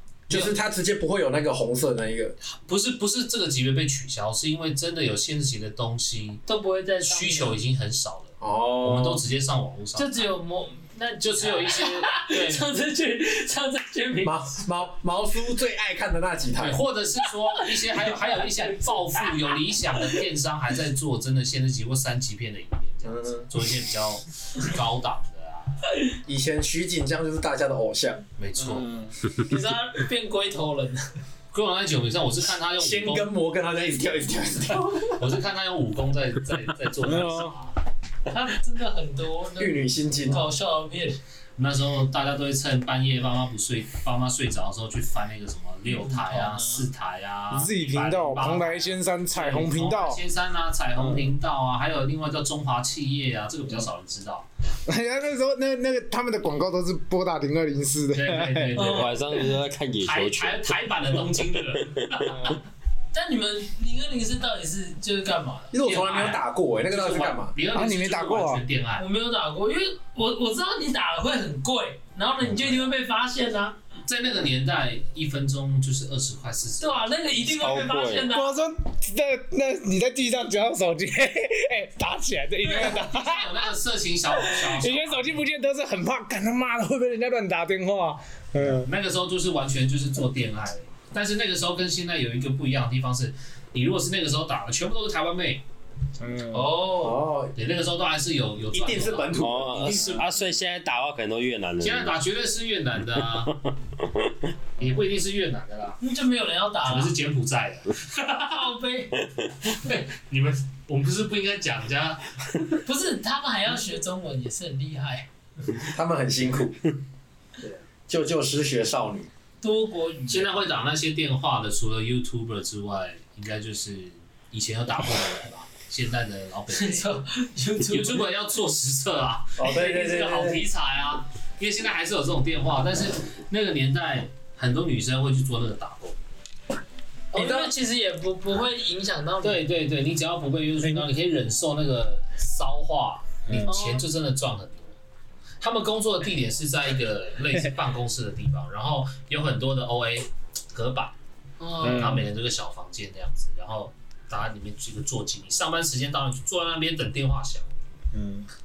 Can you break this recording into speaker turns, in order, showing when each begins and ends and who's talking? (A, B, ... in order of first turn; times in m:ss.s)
0:00.3-0:00.5 A
0:00.3-0:02.4 B
0:02.5-0:06.4 A
0:06.4-0:07.6 C
0:07.0-0:10.3 A
0:08.4-0:09.2 B
0:10.0-0:14.4 C
0:11.2-0:12.7 A
0:14.2-0:16.8 B
0:16.6-0:25.8 A
0:17.6-0:19.5 C
0:23.0-0:23.5 B
0:26.2-0:28.2 B
0:28.4-0:28.9 A
0:28.6-0:29.1 D
0:29.4-0:31.1 C
0:31.5-0:33.3 A
0:32.8-0:35.2 B
0:35.1-0:37.8 A
0:37.0-0:37.5 D
0:38.3-0:41.2 C
0:39.6-0:40.5 B
0:41.6-0:54.5 A
0:45.9-0:46.8 C
0:47.5-0:50.2 D
0:51.0-0:51.3 D
0:54.8-0:58.9 D
0:58.1-0:59.4 A
0:58.8-0:59.1 C
0:58.8-1:00.9 E
1:00.0-1:02.4 A
1:03.1-1:05.7 C
1:05.7-1:07.5 B
1:05.8-1:09.0 A
1:07.7-1:08.6 D
1:09.0-1:13.8 C
1:14.1-1:17.1 A
1:16.8-1:18.5 C
1:17.5-1:18.3 E
1:18.3-1:23.6 D
1:22.6-1:25.4 A
1:24.3-1:28.9 D
1:28.6-1:35.6 A
1:36.2-1:36.8 D
1:36.5-1:37.2 C
1:36.8-1:37.5 B
1:37.5-1:40.2 A
1:38.7-1:40.2 B
1:39.3-1:42.1 E
1:41.8-1:43.6 A
1:44.8-1:46.0 A
1:46.0-1:47.1 C
1:46.8-1:48.5 A
1:48.3-1:49.2 C
1:49.6-1:52.6 A
1:52.8-1:55.3 C
1:55.9-1:56.9 B
1:58.1-1:59.3 B
1:59.6-2:00.6 C
2:00.3-2:07.2 A
2:06.7-2:08.3 C
2:07.9-2:16.2 A
2:09.6-2:10.6 B
2:17.3-2:19.6 C
2:19.4-2:24.9 A
2:23.5-2:23.7 D
2:23.7-2:24.0 C
2:25.6-2:31.1 A
2:31.6-2:32.1 C
2:31.8-2:37.6 A
2:31.8-2:32.3 D
2:38.1-2:38.5 D